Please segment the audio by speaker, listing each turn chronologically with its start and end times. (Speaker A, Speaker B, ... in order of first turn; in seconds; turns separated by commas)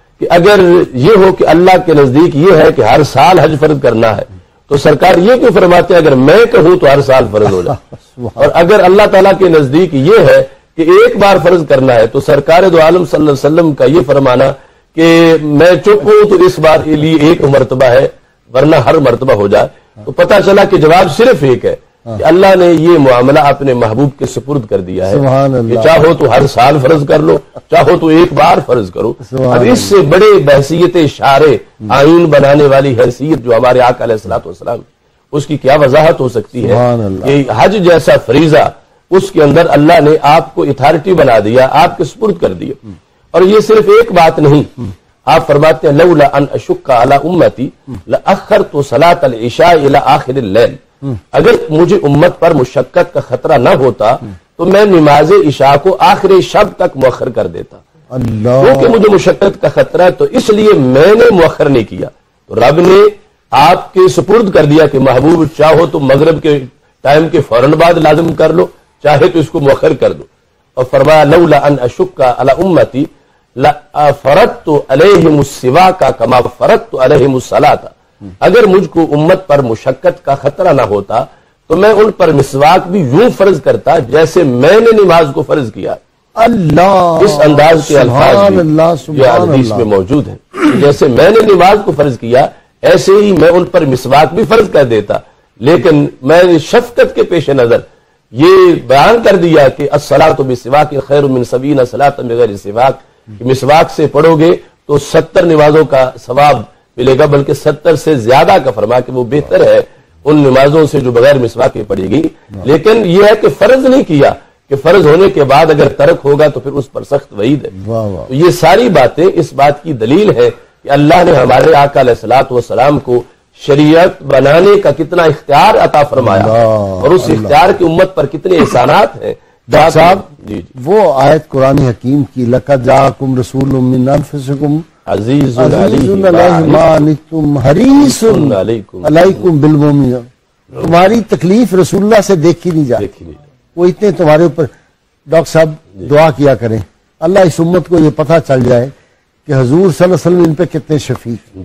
Speaker A: 0.2-7.8, Speaker B: 8.1-8.4, Speaker A: 8.4-42.8, Speaker B: 25.0-26.0, Speaker B: 29.2-29.9, Speaker B: 36.6-37.4, Speaker A: 43.3-50.8, Speaker A: 51.3-57.8, Speaker B: 58.1-59.0, Speaker A: 58.6-86.0, Speaker B: 86.4-89.9, Speaker A: 87.2-117.7, Speaker B: 117.8-118.3, Speaker A: 118.3-130.7, Speaker B: 126.2-127.6, Speaker B: 129.7-130.2, Speaker B: 130.8-134.8, Speaker A: 135.1-137.0, Speaker B: 135.6-143.0, Speaker A: 138.0-139.4, Speaker A: 143.0-143.4, Speaker B: 143.7-144.7, Speaker B: 145.3-148.9, Speaker B: 149.4-151.4